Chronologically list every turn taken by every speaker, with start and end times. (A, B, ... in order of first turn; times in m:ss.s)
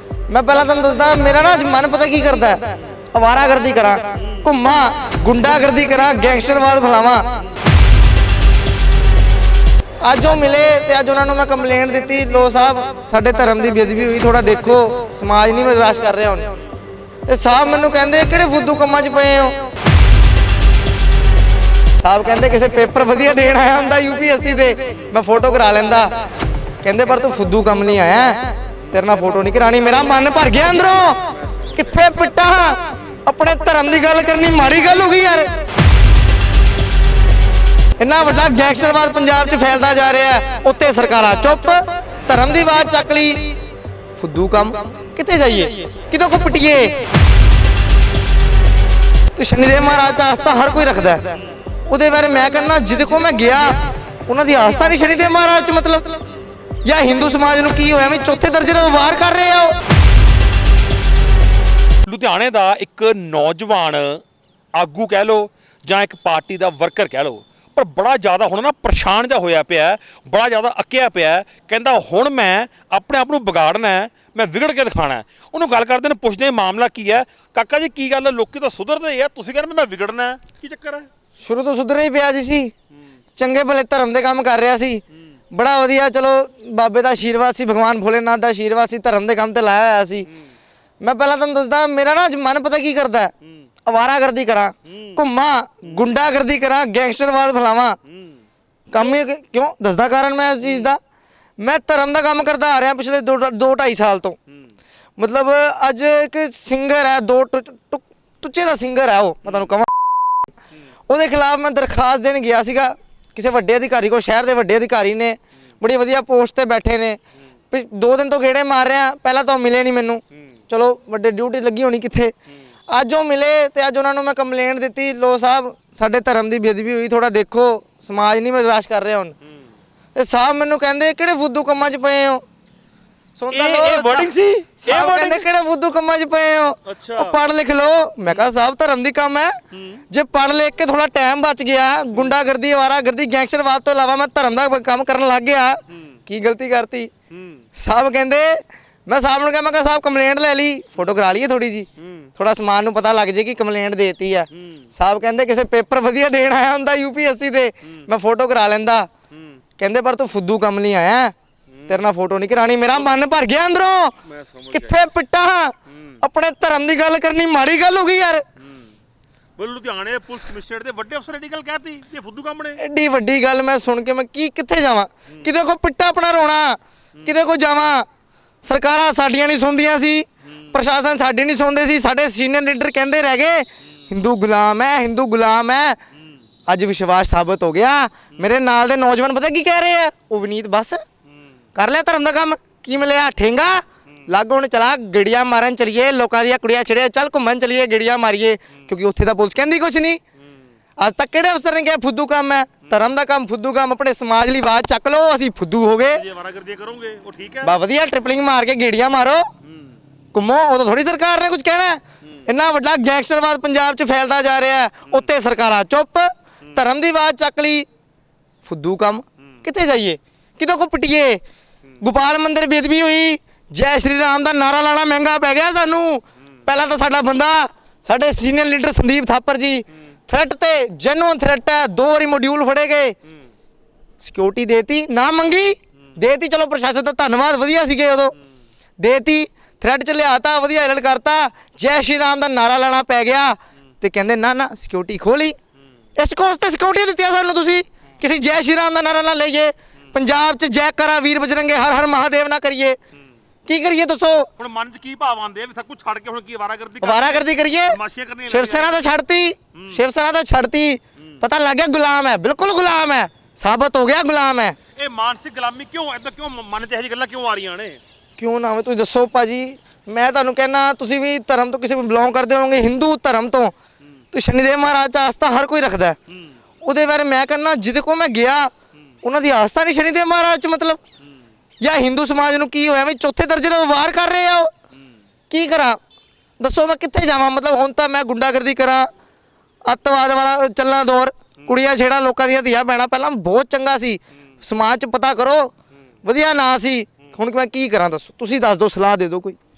0:00.3-0:07.4 A
0:04.2-0:04.5 B
0:10.0-0:16.5 A
0:17.3-0:19.6 A
0:22.0-0:26.2 A
0:26.8-0:35.5 A
0:31.2-0:32.0 B
0:38.0-0:43.6 A
0:44.2-0:47.0 A
0:49.4-0:51.3 A
0:51.9-0:56.2 A
0:56.8-0:59.8 A
1:02.0-1:04.2 B
1:04.7-1:21.1 B
1:21.4-1:22.7 A
1:23.4-1:30.3 A
1:31.0-1:33.3 A
1:33.8-1:38.0 A
1:34.9-1:35.2 B
1:38.1-1:38.4 B
1:38.9-1:41.0 A
1:40.6-1:40.9 B
1:41.6-1:44.4 A
1:45.2-1:49.9 A
1:49.4-1:49.7 B
1:51.1-1:57.2 A
1:57.7-2:02.3 A
2:02.9-2:09.4 A
2:10.2-2:12.4 A
2:13.4-2:14.3 A
2:13.5-2:15.5 B
2:14.8-2:19.6 A
2:16.9-2:17.4 B
2:19.7-2:20.0 B
2:20.1-2:27.1 A
2:27.3-2:27.6 B
2:27.8-2:39.1 A
2:32.0-2:32.3 B
2:34.5-2:34.8 B
2:39.3-2:39.6 B
2:39.8-2:41.3 A
2:41.7-2:42.0 B
2:41.9-2:44.2 A
2:44.2-2:45.0 B
2:44.7-2:48.4 A
2:45.9-2:46.2 B
2:48.6-2:48.9 B
2:49.6-2:52.8 B
2:52.8-2:58.1 A
2:58.6-3:06.0 A
3:06.7-3:11.0 A
3:11.8-3:20.2 A
3:21.0-3:26.2 A
3:26.1-3:27.8 B
3:27.6-3:29.5 A
3:29.6-3:29.9 B
3:30.3-3:37.9 A
3:38.6-3:41.4 A
3:42.0-3:53.2 A
3:54.2-3:58.3 A
3:59.0-4:05.6 A
4:06.2-4:13.0 A
4:13.7-4:14.5 A
4:14.6-4:19.0 B
4:17.0-4:18.0 A
4:18.5-4:24.8 A
4:19.7-4:20.0 B
4:25.0-4:28.0 B
4:28.4-4:33.7 A
4:34.3-4:36.2 A
4:36.8-4:38.7 A
4:39.2-4:41.0 A
4:41.8-4:44.7 A
4:45.5-4:46.0 A
4:46.6-4:49.1 A
4:49.8-4:55.7 A
4:56.2-4:59.6 A